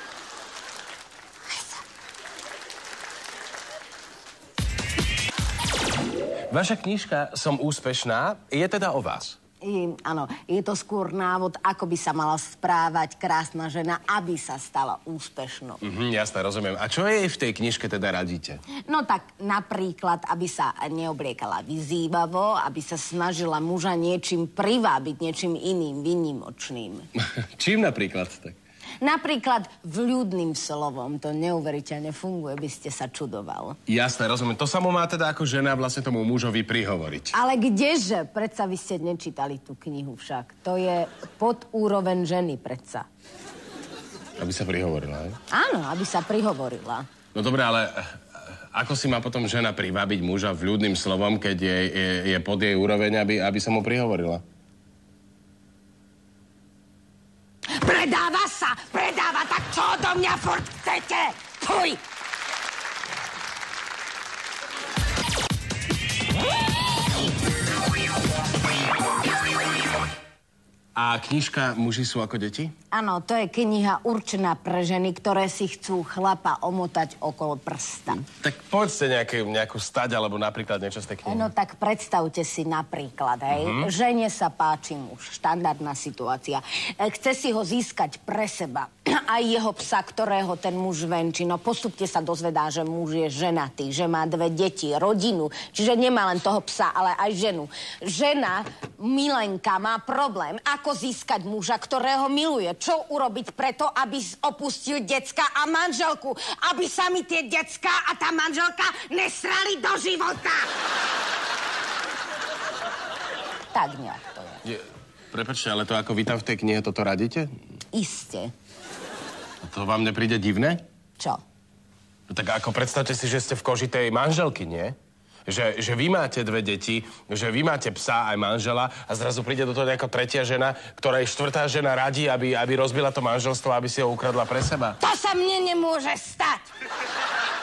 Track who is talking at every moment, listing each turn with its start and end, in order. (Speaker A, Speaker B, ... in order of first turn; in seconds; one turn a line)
Speaker A: 1.5-1.8
Speaker B: 6.5-9.4
Speaker A: 9.6-15.8
Speaker B: 15.8-18.6
Speaker A: 18.9-27.1
Speaker B: 27.2-28.6
Speaker A: 29.0-33.8
Speaker B: 33.9-37.3
Speaker A: 37.3-43.1
Speaker B: 44.4-45.4
Speaker A: 45.5-47.1
Speaker B: 47.3-54.4
Speaker A: 57.8-62.0
Speaker B: 71.0-72.7
Speaker A: 72.9-78.2
Speaker B: 78.2-81.5
Speaker A: 81.2-110.7
Speaker B: 83.5-83.9
Speaker A: 113.7-114.6
Speaker B: 114.6-117.5
Speaker A: 117.9-118.5
Speaker B: 119.6-120.8
Speaker B: 122.3-125.0
Speaker B: 125.5-135.0
Speaker A: 135.0-136.7